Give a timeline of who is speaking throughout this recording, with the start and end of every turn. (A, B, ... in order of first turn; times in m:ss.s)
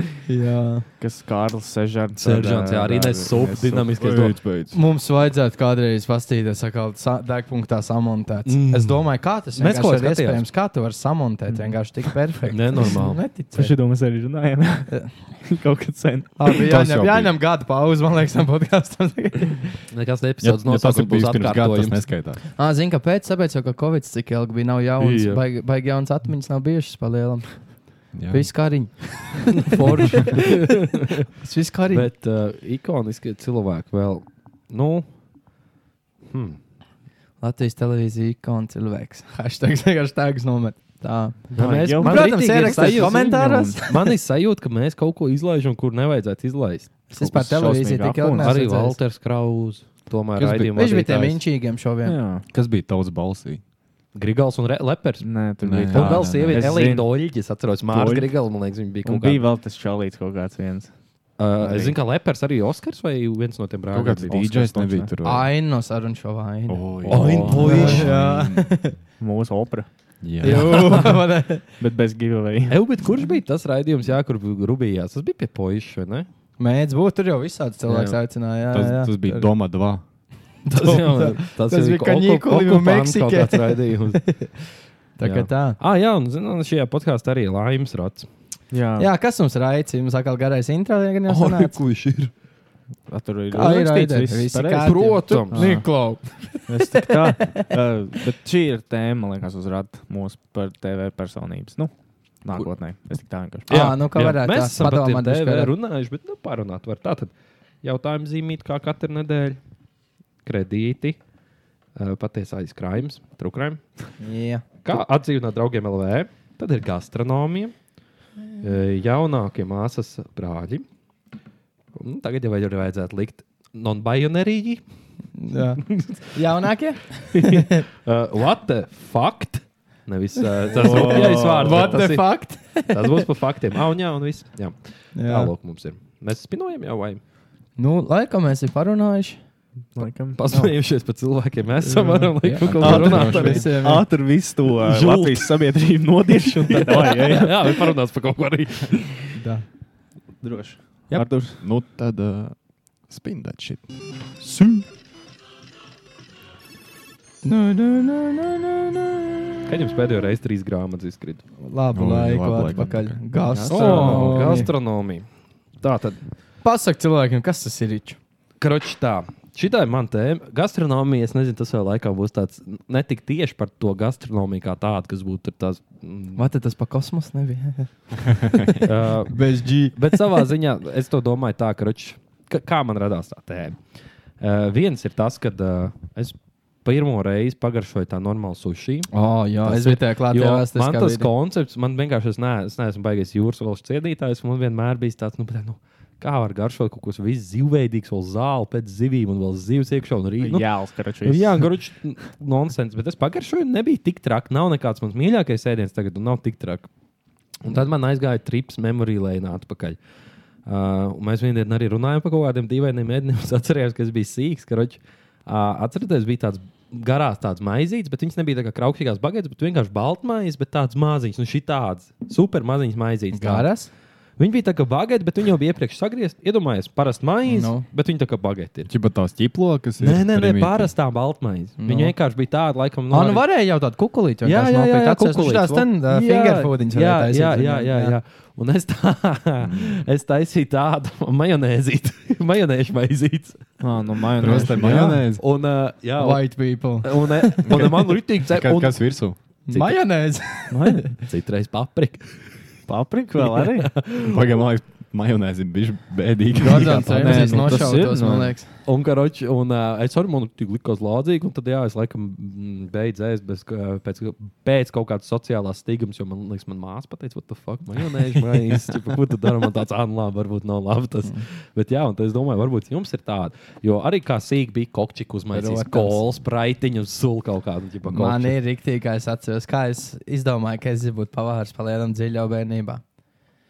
0:00.3-0:00.9 A
0:01.0-0:03.9 B
0:02.2-0:04.4 C
0:04.0-0:04.8 D
0:04.7-0:13.8 A
0:08.4-0:10.4 C
0:12.5-0:13.2 C
0:13.5-0:16.5 B
0:16.4-0:19.8 A
0:16.6-0:17.4 D
0:19.9-0:22.1 C
0:20.4-0:22.4 D
0:22.6-0:30.5 A
0:25.0-0:25.4 C
0:28.1-0:28.6 D
0:29.6-0:31.3 C
0:31.4-0:32.1 A
0:31.9-0:35.1 C
0:36.3-0:36.6 C
0:37.4-0:44.1 A
0:41.5-0:43.8 B
0:41.5-0:47.0 C
0:47.1-0:49.0 A
0:47.2-0:48.5 B
0:48.4-0:51.4 C
0:50.4-0:50.7 D
0:50.7-0:52.2 A
0:52.0-0:52.4 B
0:52.5-0:53.6 D
0:54.1-0:55.3 C
0:55.2-0:57.1 B
0:55.6-0:56.7 D
0:55.9-0:59.4 C
0:57.9-0:58.3 B
0:59.0-1:02.0 B
1:01.4-1:04.5 C
1:03.9-1:05.5 D
1:04.3-1:05.1 B
1:05.2-1:09.0 A
1:06.7-1:08.9 D
1:07.1-1:08.1 C
1:07.2-1:07.8 B
1:09.2-1:09.9 B
1:10.2-1:11.1 D
1:10.4-1:11.6 A
1:10.4-1:11.1 C
1:11.8-1:12.8 B
1:12.7-1:16.3 C
1:16.6-1:19.5 A
1:17.9-1:18.2 C
1:18.7-1:20.0 D
1:20.6-1:24.5 A
1:20.7-1:24.4 C
1:25.2-1:25.8 A
1:25.2-1:28.3 C
1:28.7-1:29.1 B
1:29.0-1:31.8 A
1:31.3-1:32.3 C
1:33.1-1:36.0 B
1:33.5-1:37.6 A
1:34.8-1:35.8 C
1:36.6-1:43.7 B
1:43.7-1:49.6 C
1:43.7-1:45.7 A
1:50.4-1:51.2 C
1:52.0-1:54.1 C
1:54.2-1:54.6 A
1:54.8-1:57.8 C
1:58.6-2:00.8 C
2:02.0-2:04.8 C
2:05.4-2:07.8 A
2:05.8-2:06.3 C
2:07.3-2:17.2 C
2:10.7-2:12.0 B
2:10.7-2:13.2 A
2:15.1-2:15.5 A
2:17.8-2:19.4 A
2:20.0-2:20.7 B
2:20.3-2:23.7 C
2:21.8-2:24.1 A
2:22.7-2:23.4 D
2:22.7-2:27.9 B
2:24.8-2:25.6 C
2:26.4-2:29.2 C
2:29.4-2:29.6 A
2:30.4-2:31.6 B
2:31.6-2:33.9 D
2:34.4-2:34.8 A
2:37.4-2:39.4 A
2:39.7-2:41.4 C
2:41.6-2:44.7 A
2:41.9-2:43.2 D
2:43.4-2:44.5 B
2:43.7-2:45.3 C
2:45.8-2:46.2 C
2:46.6-2:48.2 A
2:48.6-2:56.4 C
2:56.4-3:00.4 A
2:58.8-3:03.8 C
3:04.4-3:20.7 C
3:09.1-3:11.3 A
3:20.4-3:21.7 B
3:21.2-3:26.9 C
3:27.6-3:30.0 C
3:30.6-3:43.7 C
3:43.3-3:43.9 A
3:44.4-3:48.9 C
3:47.5-3:47.8 A
3:48.9-3:50.9 D
3:50.0-3:53.5 C
3:51.8-3:52.1 A
3:53.1-3:58.2 A
3:54.4-4:03.6 C
3:59.6-4:00.0 D
4:03.8-4:05.2 B
4:04.4-4:05.4 D
4:04.9-4:09.2 C
4:06.2-4:08.0 A
4:07.7-4:07.9 D
4:08.5-4:09.4 D
4:09.7-4:11.1 A
4:10.7-4:11.1 B
4:11.2-4:12.6 C
4:12.9-4:13.9 B
4:13.4-4:14.4 C
4:14.2-4:18.0 D
4:16.6-4:18.7 A
4:17.0-4:18.6 B
4:18.8-4:38.6 C
4:35.5-4:36.2 A
4:38.1-4:43.0 A